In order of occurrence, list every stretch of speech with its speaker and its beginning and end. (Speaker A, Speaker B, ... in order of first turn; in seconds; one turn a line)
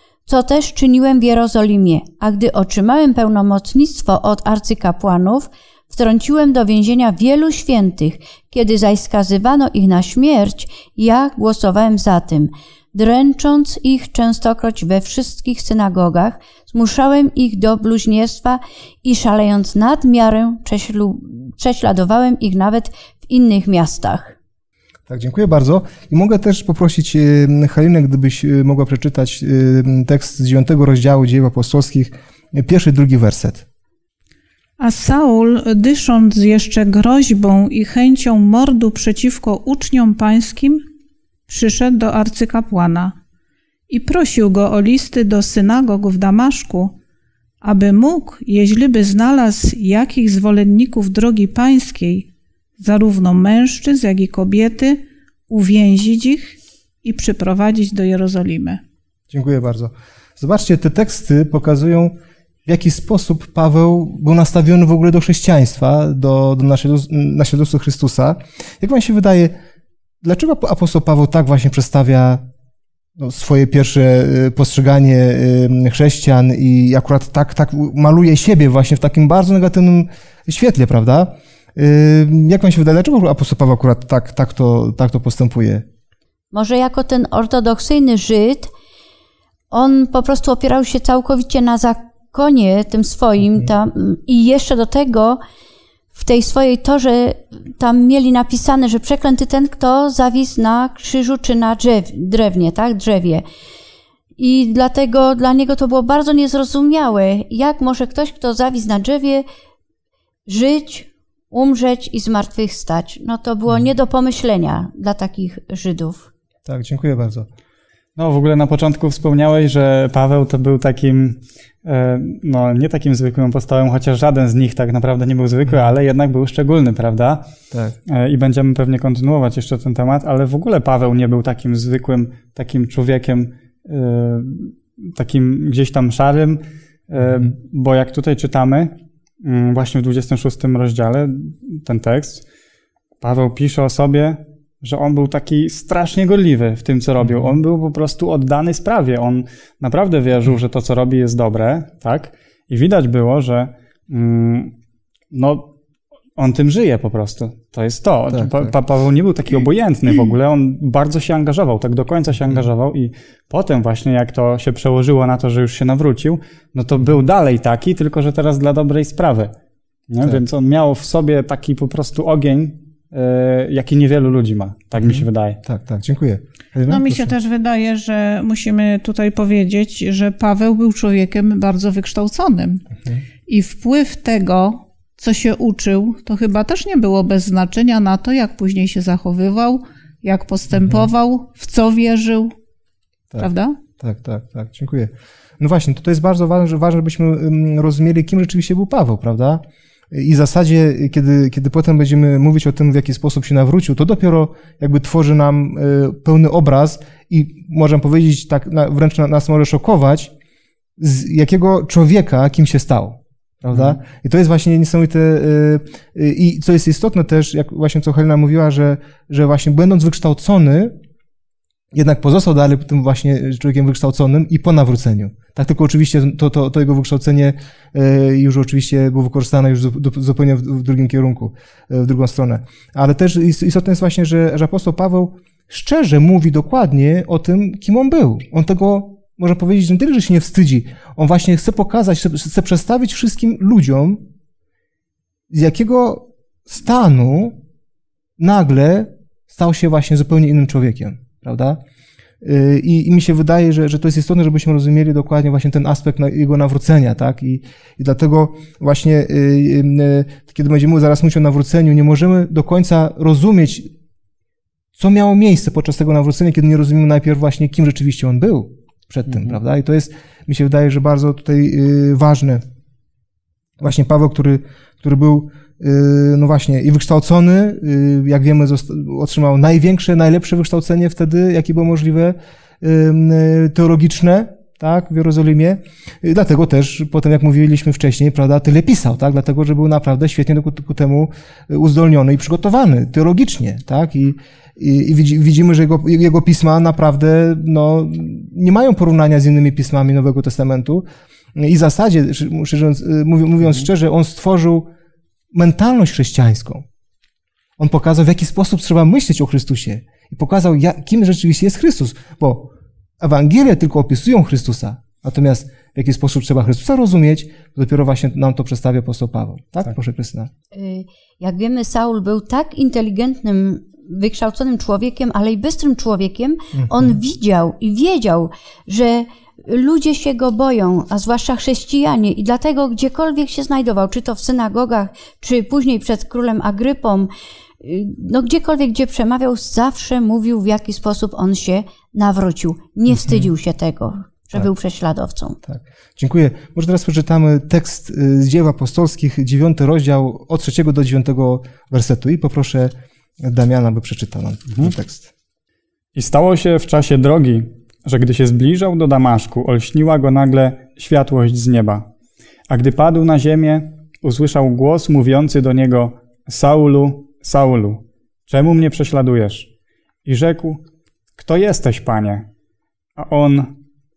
Speaker A: 0.2-24.3
Speaker B: 25.1-33.6
Speaker C: 34.8-40.8
Speaker C: 41.5-43.1
Speaker C: 43.9-46.9
Speaker C: 47.6-52.3
Speaker C: 52.8-58.8
Speaker B: 59.3-62.1
Speaker B: 62.6-69.5
Speaker B: 70.2-72.4
Speaker B: 73.2-85.8
Speaker A: 86.5-88.7
Speaker A: 89.7-95.4
Speaker A: 96.1-103.4
Speaker A: 104.4-109.4
Speaker A: 110.5-116.3
Speaker B: 116.7-117.5
Speaker D: 118.2-127.5
Speaker B: 125.7-125.9
Speaker D: 128.1-142.4
Speaker B: 137.2-137.5
Speaker D: 143.2-154.7
Speaker B: 147.2-147.5
Speaker D: 155.3-155.7
Speaker D: 156.4-169.5
Speaker B: 158.3-158.7
Speaker D: 170.1-175.6
Speaker B: 174.9-177.3
Speaker C: 176.9-182.8
Speaker C: 183.5-192.5
Speaker B: 190.7-191.1
Speaker B: 193.3-210.3
Speaker C: 193.4-193.7
Speaker B: 211.0-220.9
Speaker B: 221.9-244.3
Speaker B: 245.5-247.6
Speaker B: 248.4-251.8
Speaker B: 252.4-263.9
Speaker B: 264.9-272.6
Speaker B: 273.8-304.9
Speaker B: 305.5-306.8
Speaker B: 307.8-320.5
Speaker A: 320.7-337.3
Speaker B: 326.7-327.1
Speaker A: 337.8-345.6
Speaker B: 343.1-343.5
Speaker B: 345.6-355.3
Speaker D: 356.1-362.1
Speaker D: 362.7-369.7
Speaker D: 370.2-370.8
Speaker D: 371.4-372.4
Speaker D: 373.2-373.8